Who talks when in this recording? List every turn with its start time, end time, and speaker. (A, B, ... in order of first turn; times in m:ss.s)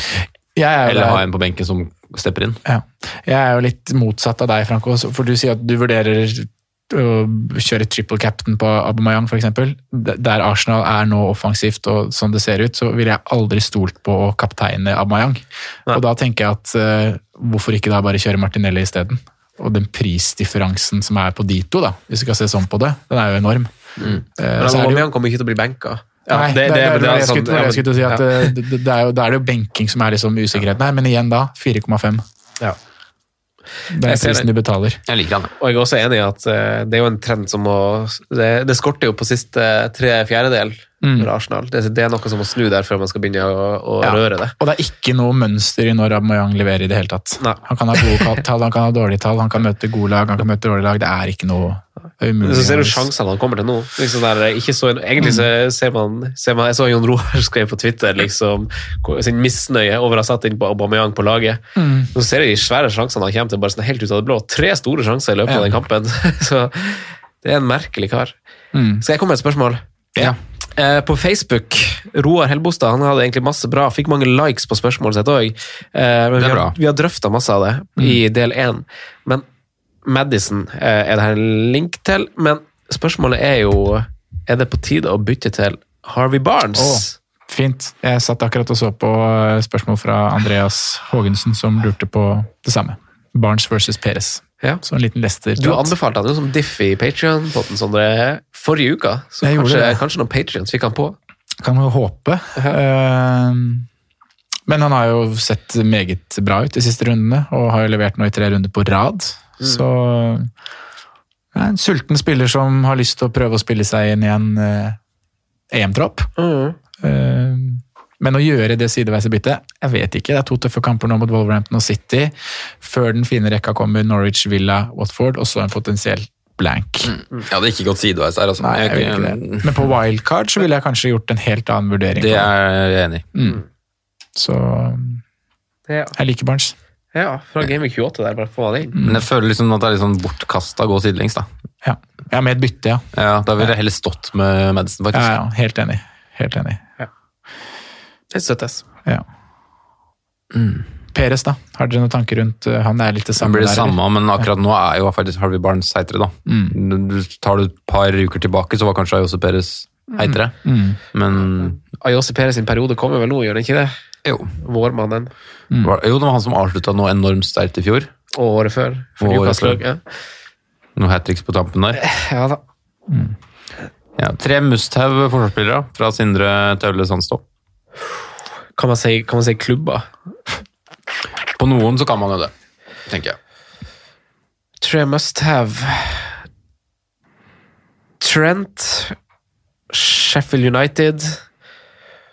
0:00.2-0:01.2 A
0:00.8-0:02.6 B
0:02.6-0:23.7 A
0:24.0-0:28.6 C
0:24.4-0:25.1 A
0:26.3-0:32.2 A
0:33.9-0:35.0 A
0:34.0-0:34.5 C
0:35.0-0:35.5 B
0:35.6-0:44.6 C
0:41.0-0:41.3 A
0:44.0-0:53.1 A
0:47.4-0:48.4 C
0:52.4-1:08.4 C
0:55.2-0:55.5 A
1:01.8-1:02.1 A
1:05.4-1:05.8 A
1:08.7-1:09.0 A
1:09.0-1:09.8 C
1:10.7-1:19.4 C
1:16.4-1:16.7 B
1:20.0-1:27.1 C
1:26.7-1:35.9 A
1:35.6-1:41.2 C
1:39.4-1:40.0 A
1:41.6-1:43.9 A
1:44.7-1:50.5 A
1:51.5-1:55.0 A
1:55.7-1:56.3 A
1:56.4-1:56.8 C
1:57.0-2:07.1 A
2:07.0-2:09.9 B
2:08.6-2:12.5 A
2:12.2-2:13.3 B
2:13.3-2:13.6 A
2:14.4-2:15.2 A
2:15.9-2:16.2 C
2:16.1-2:16.7 A
2:17.1-2:19.0 C
2:18.9-2:19.2 A
2:19.0-2:21.4 B
2:21.8-2:23.1 A
2:23.1-2:25.3 B
2:25.1-2:26.8 A
2:28.3-2:28.8 C
2:30.5-2:30.8 B
2:31.1-2:34.4 A
2:33.4-2:40.5 B
2:36.4-2:36.8 A
2:40.2-2:41.0 A
2:41.1-2:41.8 B
2:41.3-2:43.9 C
2:44.2-2:44.5 B
2:44.6-2:45.3 C
2:45.8-2:48.1 B
2:48.3-2:50.0 C
2:49.2-2:49.8 B
2:51.0-2:52.0 B
2:51.9-2:52.6 C
2:53.1-2:53.3 A
2:54.2-2:57.4 B
2:58.8-3:00.1 C
3:01.6-3:02.5 B
3:03.1-3:03.4 B
3:04.8-3:06.4 C
3:08.2-3:09.2 C
3:09.9-3:11.4 C